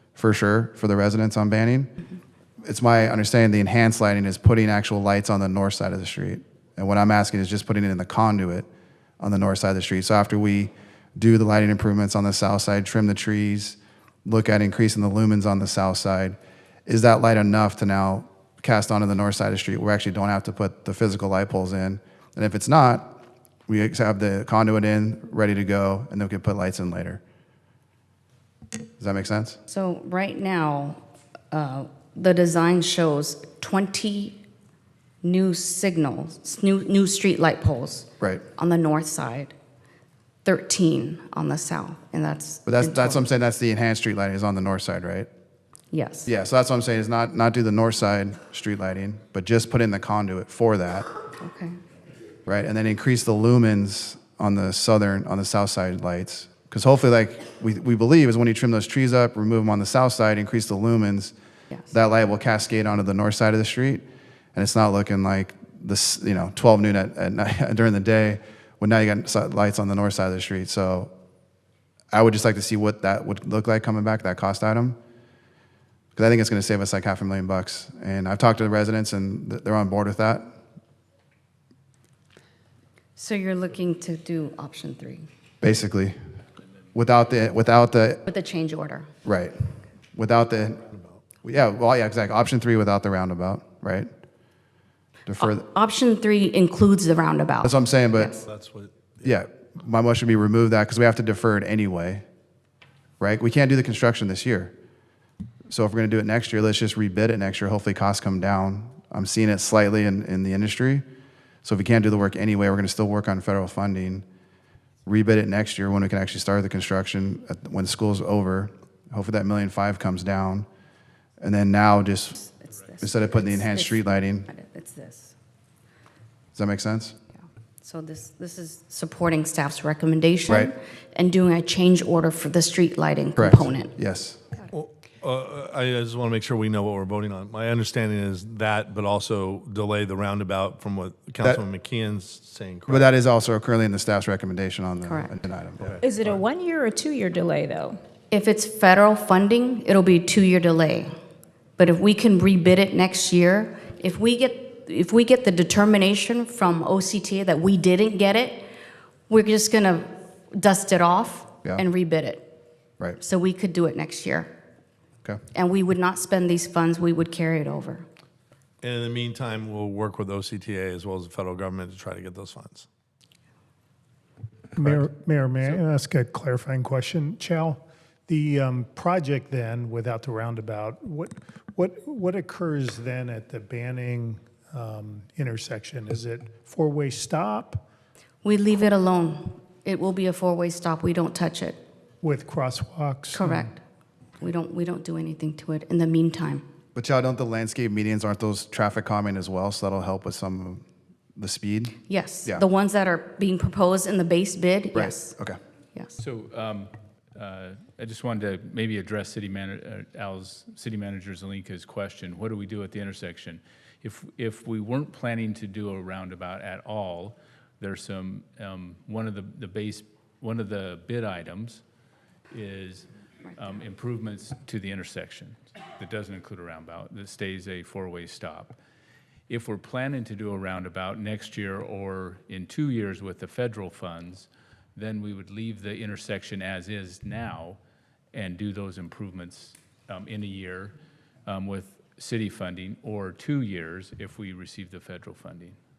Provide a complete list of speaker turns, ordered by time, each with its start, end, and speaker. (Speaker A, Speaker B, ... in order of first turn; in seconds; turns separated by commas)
Speaker A: 0.2-1.9, Speaker A: 2.6-8.7, Speaker A: 9.2-27.2, Speaker A: 29.0-29.6, Speaker B: 29.7-31.0, Speaker B: 31.5-34.4, Speaker B: 35.2-39.5, Speaker B: 40.5-43.3, Speaker A: 42.6-45.3, Speaker B: 45.9-46.3, Speaker A: 46.3-51.1, Speaker B: 51.4-51.8, Speaker A: 52.5-61.4, Speaker A: 61.9-64.0, Speaker A: 64.6-71.1, Speaker A: 72.1-75.0, Speaker A: 76.2-80.5, Speaker B: 83.2-85.3, Speaker A: 85.6-86.2, Speaker A: 86.9-88.2, Speaker B: 88.3-89.1, Speaker A: 89.2-90.8, Speaker A: 91.4-94.1, Speaker A: 95.3-95.6, Speaker B: 95.4-98.4, Speaker A: 97.6-98.4, Speaker C: 98.5-99.3, Speaker A: 99.2-102.2, Speaker A: 103.2-104.7, Speaker A: 105.7-111.0, Speaker A: 111.6-114.2, Speaker A: 115.1-120.7, Speaker A: 121.4-122.4, Speaker B: 122.4-125.3, Speaker A: 123.0-124.5, Speaker A: 126.5-127.2, Speaker B: 127.8-133.9, Speaker A: 133.4-134.4, Speaker C: 134.7-143.1, Speaker A: 142.9-146.0, Speaker B: 145.1-145.3, Speaker D: 146.0-148.0, Speaker B: 148.3-151.1, Speaker B: 151.8-158.7, Speaker B: 159.3-162.6, Speaker B: 163.2-164.5, Speaker B: 165.5-168.1, Speaker C: 168.8-172.9, Speaker E: 174.8-187.9, Speaker C: 174.8-175.0, Speaker B: 188.4-191.8, Speaker E: 192.2-193.6, Speaker B: 193.3-193.8, Speaker B: 194.4-196.6, Speaker A: 196.9-200.8, Speaker A: 201.4-202.6, Speaker B: 202.1-205.3, Speaker A: 204.9-205.6, Speaker F: 206.2-221.8, Speaker F: 222.5-228.8, Speaker F: 229.5-237.8, Speaker F: 238.3-245.8